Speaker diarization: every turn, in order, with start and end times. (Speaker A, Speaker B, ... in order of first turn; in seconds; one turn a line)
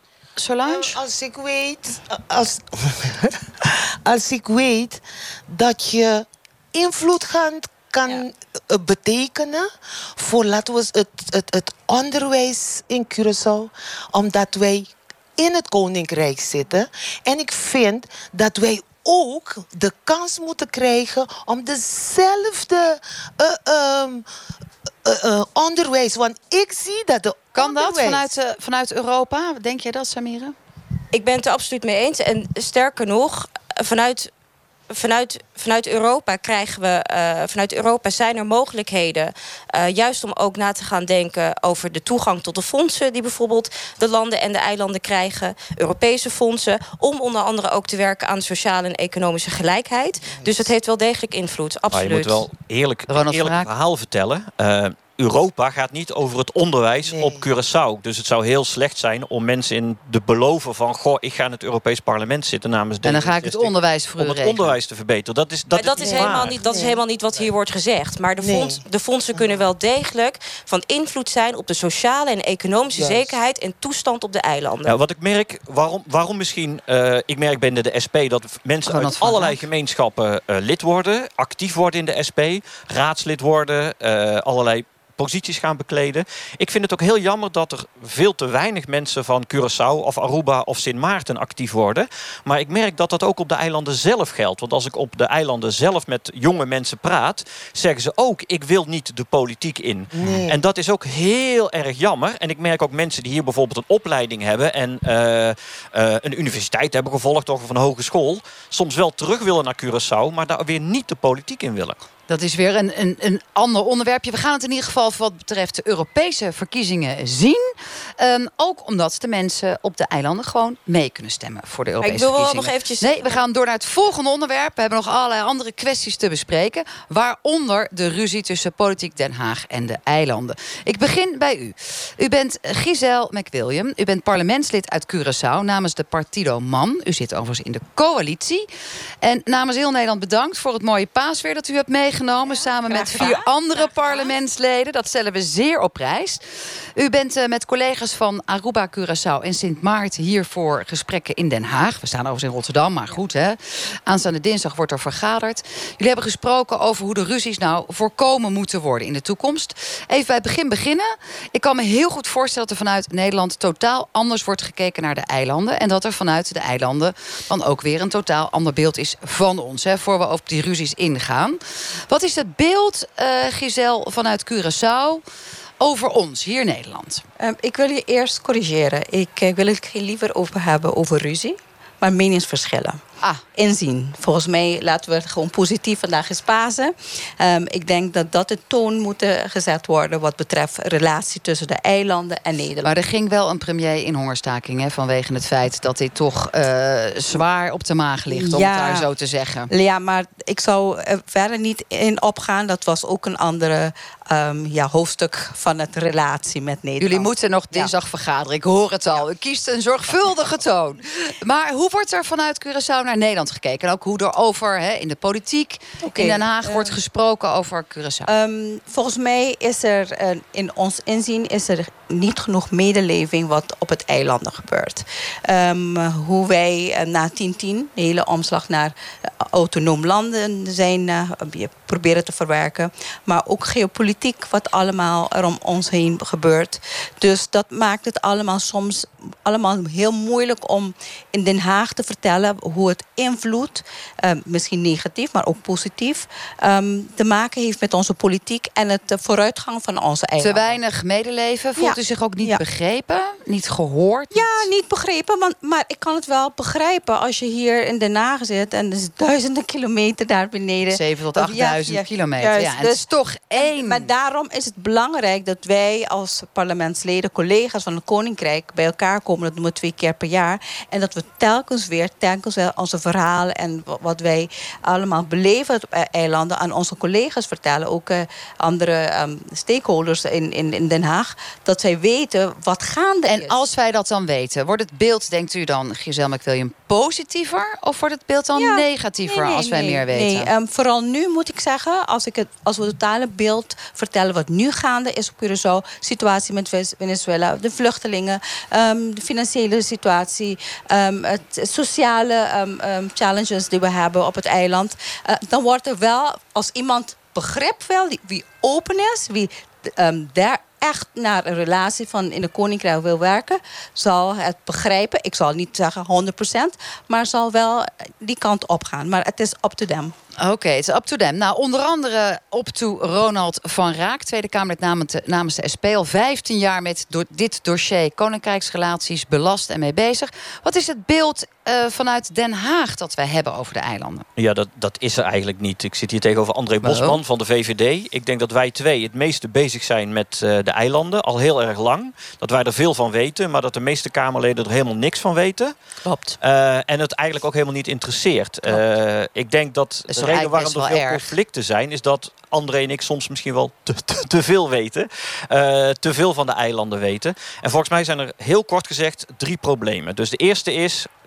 Speaker A: 0.3-1.0
Speaker B: 0.7-24.2
Speaker B: 25.0-28.3
Speaker A: 27.5-30.5
Speaker C: 31.1-34.3
Speaker C: 34.9-52.5
Speaker B: 50.3-50.6
Speaker D: 51.9-66.6
Speaker A: 53.1-53.7
Speaker B: 57.0-57.4
Speaker A: 63.0-64.7
Speaker C: 65.7-74.9
Speaker B: 66.1-67.0
Speaker B: 68.4-68.8
Speaker B: 72.9-73.3
Speaker D: 74.8-112.0
Speaker A: 78.9-79.6
Speaker B: 100.1-100.6
Speaker A: 112.3-138.7
Speaker C: 122.0-123.2
Speaker A: 139.2-146.4
Speaker E: 142.7-144.2
Speaker A: 146.9-175.2
Speaker A: 175.8-177.2
Speaker E: 177.4-183.0
Speaker E: 183.6-192.9
Speaker A: 192.8-199.7
Speaker E: 198.3-199.1
Speaker E: 199.7-207.9
Speaker A: 207.0-218.3
Speaker E: 216.0-217.0
Speaker E: 218.2-250.8
Speaker A: 250.4-254.7
Speaker E: 251.8-252.6
Speaker E: 254.3-283.6
Speaker A: 260.9-264.1
Speaker A: 283.3-290.5
Speaker E: 288.6-320.1
Speaker A: 320.4-334.2
Speaker D: 334.4-345.7
Speaker A: 336.8-337.2
Speaker E: 346.0-346.4
Speaker D: 346.4-361.1
Speaker A: 350.1-351.3